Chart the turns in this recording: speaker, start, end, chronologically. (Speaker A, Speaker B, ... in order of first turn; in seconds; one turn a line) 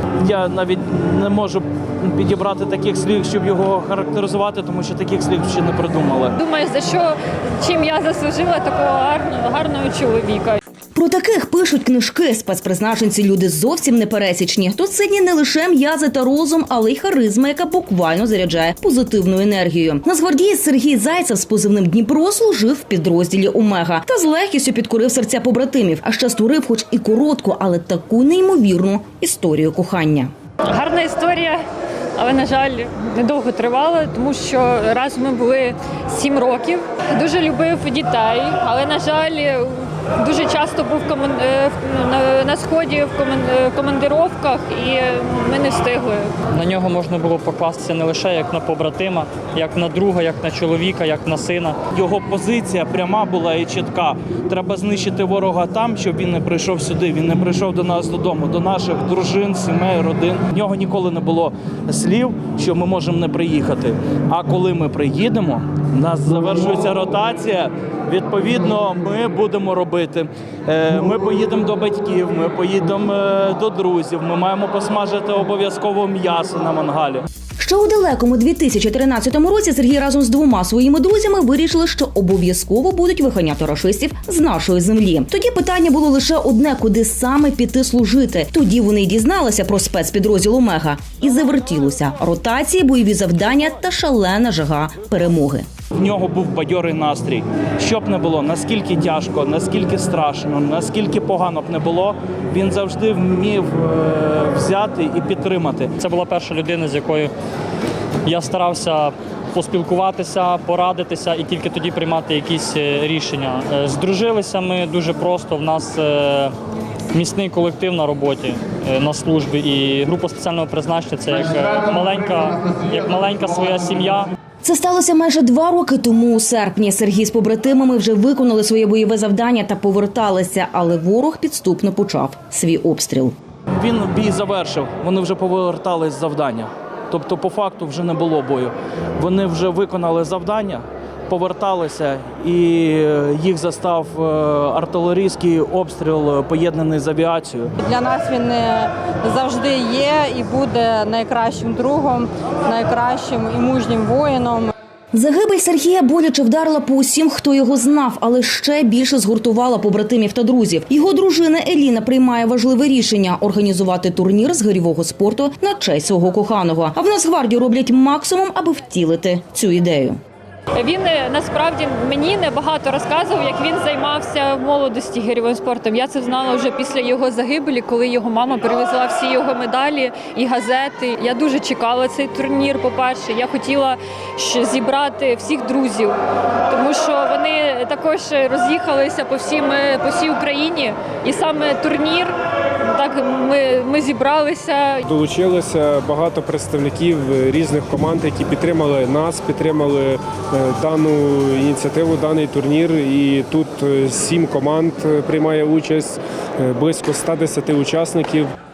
Speaker A: 0.2-6.3
Speaker B: 6.3-10.6
Speaker C: 10.9-30.3
Speaker B: 30.6-31.6
Speaker B: 32.2-46.3
Speaker D: 46.5-51.8
Speaker A: 51.9-77.2
Speaker C: 77.6-95.7
Speaker A: 96.0-105.9
Speaker D: 106.0-107.3
Speaker D: 108.2-116.5
Speaker D: 117.1-124.3
Speaker C: 124.6-133.3
Speaker A: 133.7-147.7
Speaker E: 147.8-154.7
Speaker C: 155.1-170.2
Speaker B: 170.8-186.2
Speaker B: 186.7-192.3
Speaker B: 192.8-195.1
Speaker F: 195.1-208.5